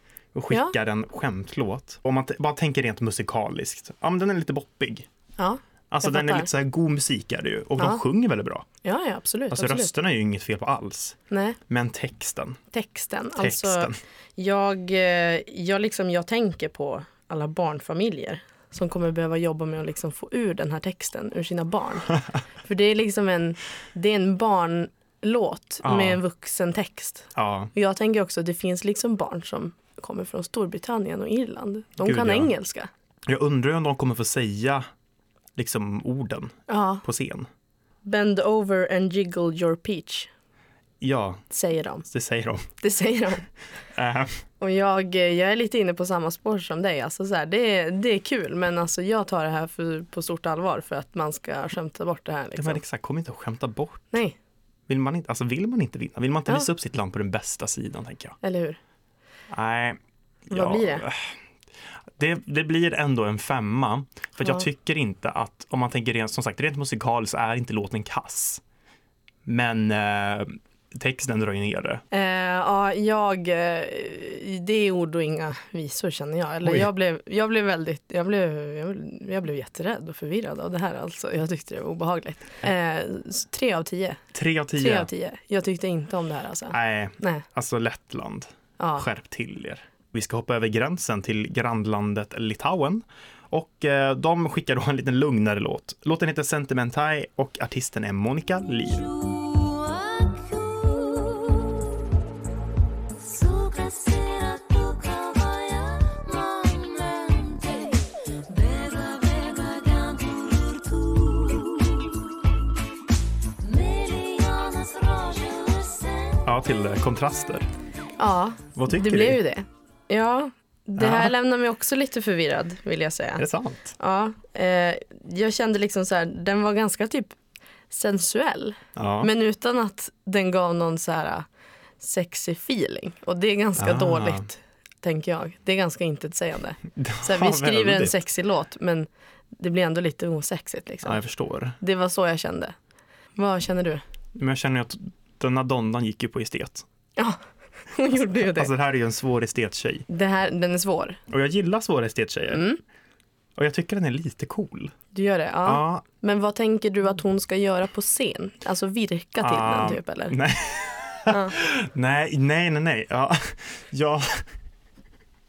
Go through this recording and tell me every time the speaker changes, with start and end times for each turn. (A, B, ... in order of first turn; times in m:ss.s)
0:00.3-0:05.1 A
0:05.4-0:06.5 B
0:05.9-0:08.7 A
0:08.8-0:09.9 B
0:09.5-0:12.6 A
0:11.3-0:11.6 B
0:12.7-0:22.1 B
0:13.4-0:14.0 A
0:22.6-0:32.9 B
0:25.8-0:26.2 A
0:27.4-0:27.7 A
0:32.0-0:32.5 A
0:33.3-0:34.9 A
0:35.6-0:37.5 A
0:36.7-0:37.0 B
0:38.0-0:40.3 B
0:41.0-0:41.4 A
0:41.5-0:42.1 B
0:42.0-0:42.7 A
0:42.8-0:43.5 B
0:43.9-0:44.4 A
0:44.6-0:52.8 B
0:52.6-0:54.2 A
0:54.9-0:58.4 A
0:58.4-0:58.8 B
0:59.5-1:01.3 A
1:00.5-1:01.0 B
1:02.2-1:08.6 A
1:04.4-1:04.7 B
1:09.4-1:12.0 A
1:12.1-1:24.2 B
1:16.6-1:16.9 A
1:24.3-1:25.1 A
1:24.8-1:27.4 B
1:26.7-1:39.1 A
1:28.8-1:29.0 B
1:38.8-1:41.9 C
1:43.2-1:52.2 C
1:53.6-1:56.4 C
1:56.4-1:57.7 A
1:58.2-2:03.4 B
1:58.8-1:59.4 A
2:01.0-2:01.3 A
2:03.4-2:03.9 A
2:04.0-2:07.4 B
2:07.9-2:11.5 B
2:09.0-2:09.3 A
2:12.0-2:21.2 B
2:13.8-2:14.5 A
2:17.0-2:18.2 A
2:21.0-2:21.8 A
2:21.8-2:22.8 B
2:23.4-2:24.0 B
2:24.4-2:26.9 A
2:27.9-2:28.7 B
2:28.3-2:30.1 A
2:30.1-2:31.2 B
2:31.3-2:32.6 A
2:32.5-2:32.8 B
2:33.6-2:35.0 A
2:35.1-2:40.4 B
2:35.6-2:36.0 A
2:39.4-2:44.4 A
2:41.3-2:41.6 B